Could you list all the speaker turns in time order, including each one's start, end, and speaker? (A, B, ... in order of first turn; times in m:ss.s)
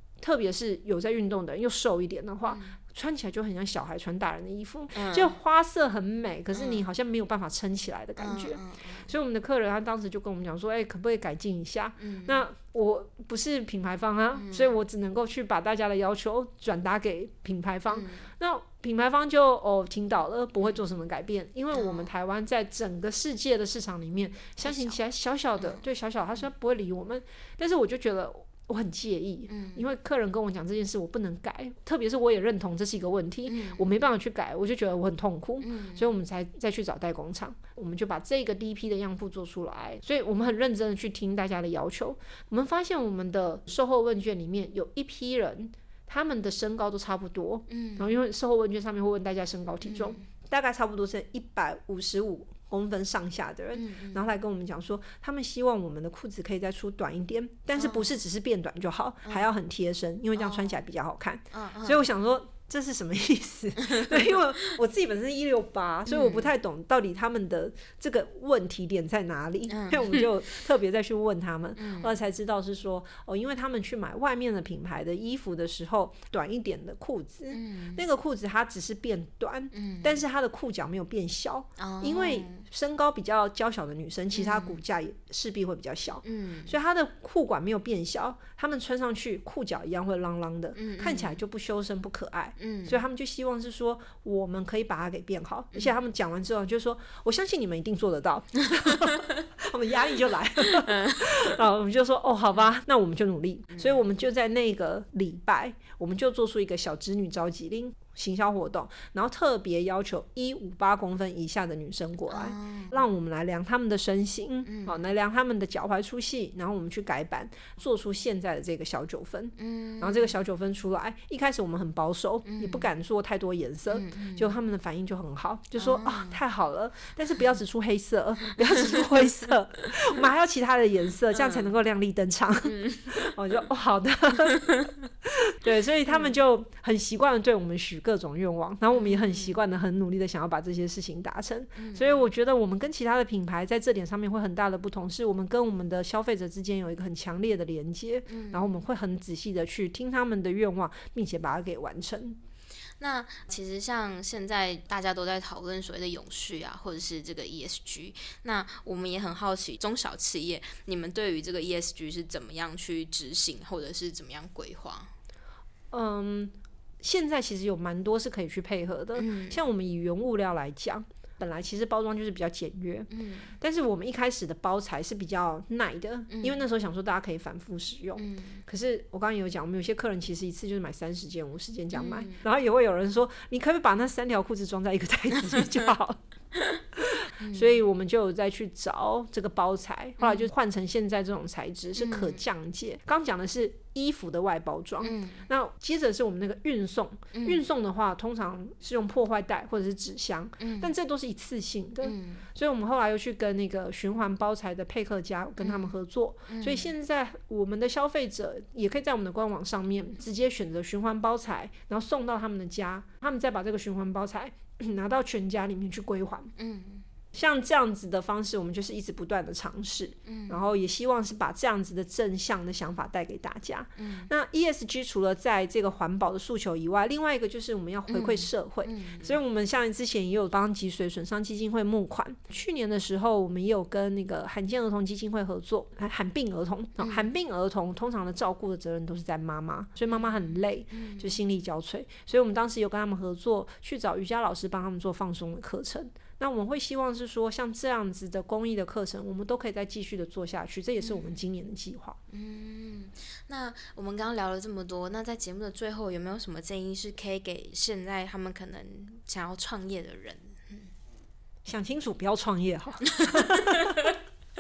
0:00.2-2:32.4 A
0:02.4-0:02.8 B
0:04.9-0:05.4 B
0:06.5-0:06.8 B
0:08.2-0:09.1 B
0:12.0-0:12.4 B
0:14.4-0:14.7 B
0:17.9-0:18.3 B
0:21.7-0:22.1 B
0:24.6-0:25.0 B
0:29.5-0:29.8 B
0:33.5-0:33.9 B
0:35.6-0:36.1 B
0:47.7-0:48.1 B
0:49.8-0:50.2 B
0:53.8-0:54.2 B
0:57.8-0:58.1 B
1:00.4-1:00.8 B
1:01.5-1:02.1 B
1:03.9-1:04.3 B
1:06.1-1:06.5 B
1:09.7-1:10.2 B
1:11.8-1:12.2 B
1:17.5-1:18.0 B
1:19.7-1:20.2 B
1:21.8-1:22.6 B
1:24.3-1:24.8 B
1:26.2-1:26.7 B
1:30.8-1:31.4 B
1:32.6-1:33.0 B
1:40.8-1:41.2 B
1:43.7-1:44.0 B
1:52.3-1:53.0 B
1:54.7-1:55.0 B
1:59.6-2:00.3 B
2:02.4-2:02.9 B
2:03.9-2:04.5 B
2:05.8-2:06.4 B
2:08.8-2:09.0 B
2:11.4-2:11.7 B
2:12.7-2:13.1 B
2:16.1-2:16.4 B
2:18.9-2:19.6 B
2:21.8-2:22.3 B
2:28.3-2:28.8 B
2:33.0-2:45.1 B
2:45.9-3:06.2 A
2:49.2-2:49.6 B
2:53.1-2:53.5 B
2:56.3-2:56.6 B
2:58.2-2:58.6 B
3:01.9-3:02.4 B
3:07.0-3:36.5 A
3:07.4-3:07.8 B
3:10.2-3:10.5 B
3:12.0-3:12.4 B
3:15.0-3:15.5 B
3:17.3-3:17.6 B
3:20.6-3:20.9 B
3:22.0-3:22.4 B
3:25.6-3:26.0 B
3:26.5-3:26.9 B
3:36.6-3:37.0 B
3:37.3-4:12.2 A
3:40.3-3:40.6 B
3:44.0-3:44.3 B
3:48.1-3:49.4 B
3:57.0-3:57.3 B
4:00.1-4:01.4 B
4:11.0-4:11.4 B
4:12.3-4:20.9 B
4:21.7-4:24.1 A
4:23.2-4:23.6 B